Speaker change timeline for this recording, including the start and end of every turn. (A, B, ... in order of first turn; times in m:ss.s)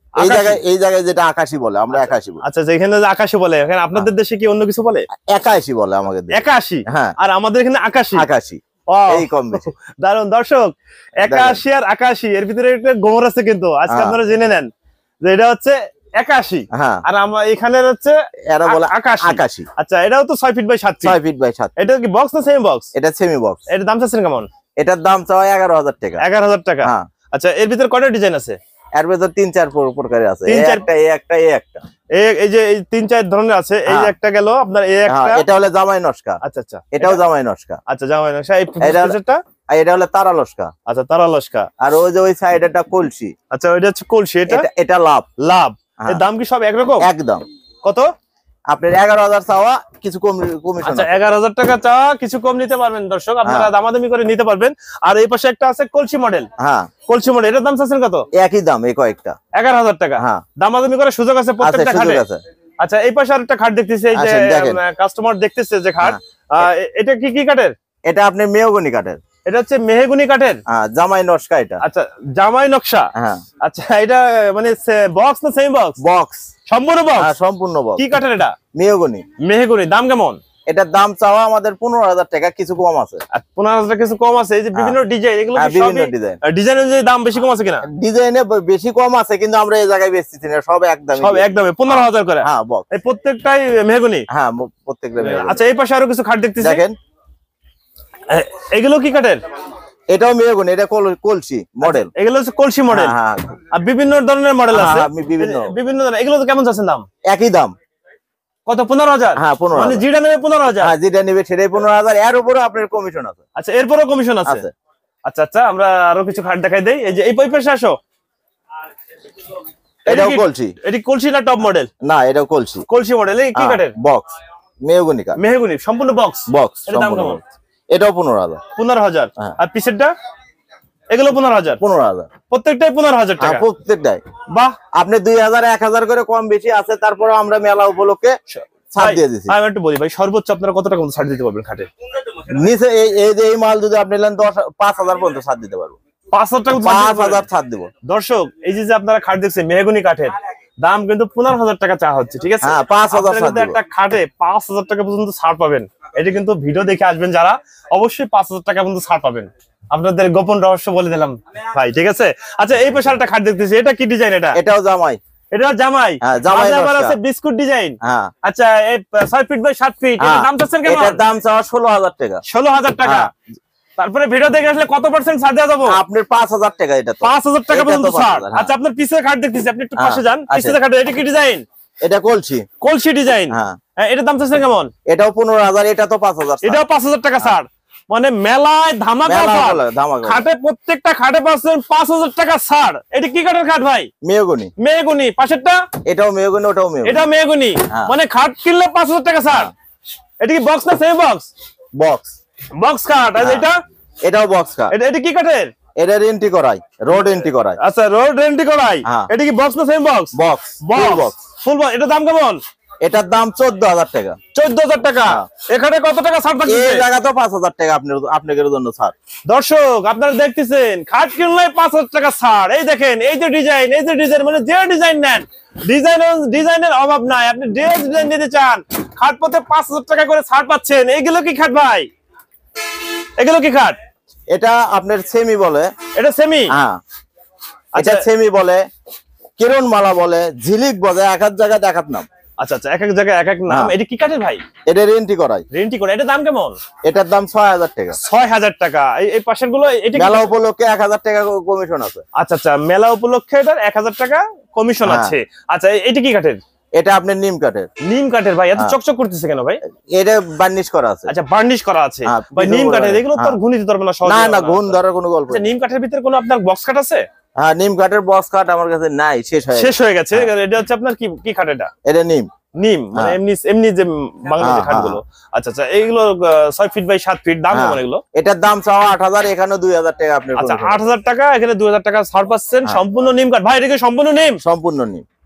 0:00.2-0:00.6 A
0:00.2-0:02.4 B
0:02.0-0:05.1 A
0:05.2-0:07.1 B
0:06.3-0:08.3 A
0:08.1-0:09.7 B
0:08.9-0:14.7 A
0:11.2-0:11.6 B
0:13.9-0:14.2 B
0:15.2-0:21.2 A
0:16.7-0:17.0 B
0:18.5-0:19.7 B
0:21.0-0:21.7 B
0:21.8-0:22.9 A
0:22.9-0:23.6 B
0:23.7-0:24.5 A
0:24.8-0:26.2 B
0:26.2-0:28.6 A
0:29.0-0:31.8 B
0:30.4-0:30.8 A
0:32.1-0:35.4 A
0:33.9-0:34.1 B
0:35.1-0:36.4 B
0:36.4-0:37.2 A
0:36.9-0:37.8 B
0:37.9-0:39.4 A
0:38.8-0:39.2 B
0:39.7-0:40.7 B
0:40.9-0:41.7 A
0:41.8-0:43.3 B
0:43.5-0:44.6 A
0:44.5-0:45.3 B
0:45.4-0:47.1 A
0:47.0-0:47.4 B
0:47.8-0:48.1 A
0:48.7-0:51.2 B
0:50.8-0:56.5 A
0:53.4-0:53.7 B
0:56.6-0:56.9 B
0:57.1-0:58.3 A
0:58.3-0:59.4 B
0:59.5-1:02.2 A
1:00.2-1:00.4 B
1:01.6-1:02.4 B
1:02.8-1:07.7 A
1:04.1-1:04.8 B
1:08.1-1:09.2 B
1:09.4-1:10.6 A
1:10.7-1:11.8 B
1:11.8-1:16.0 A
1:13.2-1:13.4 B
1:16.0-1:16.5 B
1:16.7-1:17.3 A
1:17.2-1:18.1 B
1:18.0-1:18.6 A
1:18.8-1:19.2 B
1:19.4-1:20.4 A
1:20.7-1:23.2 B
1:23.3-1:27.8 A
1:25.6-1:26.4 B
1:27.8-1:32.8 B
1:31.2-1:34.2 A
1:34.3-1:35.6 B
1:35.2-1:36.8 A
1:36.6-1:37.0 B
1:38.3-1:39.4 A
1:40.1-1:42.1 B
1:41.8-1:43.1 A
1:42.9-1:43.6 B
1:43.7-1:47.1 A
1:44.7-1:45.7 B
1:47.3-1:47.7 B
1:48.6-1:50.9 A
1:49.4-1:50.0 B
1:50.8-1:53.4 B
1:53.6-1:54.6 A
1:54.4-1:54.7 B
1:55.2-1:58.0 A
2:00.1-2:00.8 B
2:00.1-2:01.9 A
2:02.0-2:02.8 B
2:02.9-2:03.9 A
2:03.6-2:04.3 B
2:04.8-2:05.4 B
2:05.4-2:07.4 A
2:06.5-2:07.4 B
2:07.9-2:08.6 B
2:08.8-2:10.1 A
2:11.1-2:11.8 A
2:11.8-2:12.3 B
2:12.5-2:13.6 A
2:13.4-2:14.2 B
2:14.9-2:18.4 B
2:18.5-2:21.9 A
2:18.9-2:19.6 B
2:22.4-2:26.0 B
2:26.3-2:27.4 A
2:26.8-2:27.9 B
2:28.0-2:44.6 A
2:32.6-2:33.8 B
2:44.6-2:45.2 B
2:45.5-2:51.2 A
2:46.2-2:47.2 B
2:48.0-2:48.3 B
2:50.2-2:52.4 B
2:52.5-2:53.3 A
2:53.0-2:53.4 B
2:54.0-2:56.0 A
2:55.9-2:58.7 B
2:57.2-3:01.6 A
3:00.0-3:00.8 B
3:02.0-3:02.7 B
3:02.8-3:04.9 A
3:03.5-3:03.8 B
3:05.1-3:06.8 B
3:06.6-3:14.1 A
3:09.2-3:10.4 B
3:14.2-3:14.7 B
3:14.8-3:15.8 A
3:16.1-3:17.3 B
3:17.0-3:19.7 A
3:20.4-3:21.5 A
3:22.0-3:22.3 B
3:22.8-3:23.8 A
3:23.4-3:23.7 B
3:24.2-3:24.9 B
3:24.9-3:25.7 A
3:26.0-3:27.8 B
3:27.8-3:32.6 A
3:30.3-3:31.3 B
3:33.0-3:34.4 B
3:34.5-3:37.0 A
3:36.6-3:39.1 B
3:39.5-3:52.1 A
3:53.4-3:54.0 A
3:54.5-3:55.9 B
3:56.1-3:56.7 A
3:56.7-3:57.0 B
3:58.0-3:58.2 A
3:58.0-3:58.8 B
3:59.6-4:02.2 B
4:02.6-4:04.6 A
4:03.7-4:03.9 B
4:04.9-4:05.6 B
4:05.7-4:06.8 A
4:07.0-4:08.2 B
4:08.1-4:10.5 A
4:10.1-4:12.2 B
4:12.4-4:16.6 A
4:15.0-4:15.3 B
4:17.0-4:17.9 B
4:18.1-4:19.8 A
4:20.1-4:21.3 B
4:21.3-4:25.0 A
4:22.3-4:23.6 B
4:24.2-4:25.6 B
4:25.5-4:27.2 A
4:27.6-4:30.5 B
4:29.8-4:31.9 A
4:32.0-4:32.5 B
4:32.8-4:38.2 A
4:34.6-4:35.2 B
4:37.7-4:41.0 B
4:40.6-4:44.6 A
4:44.6-4:45.2 B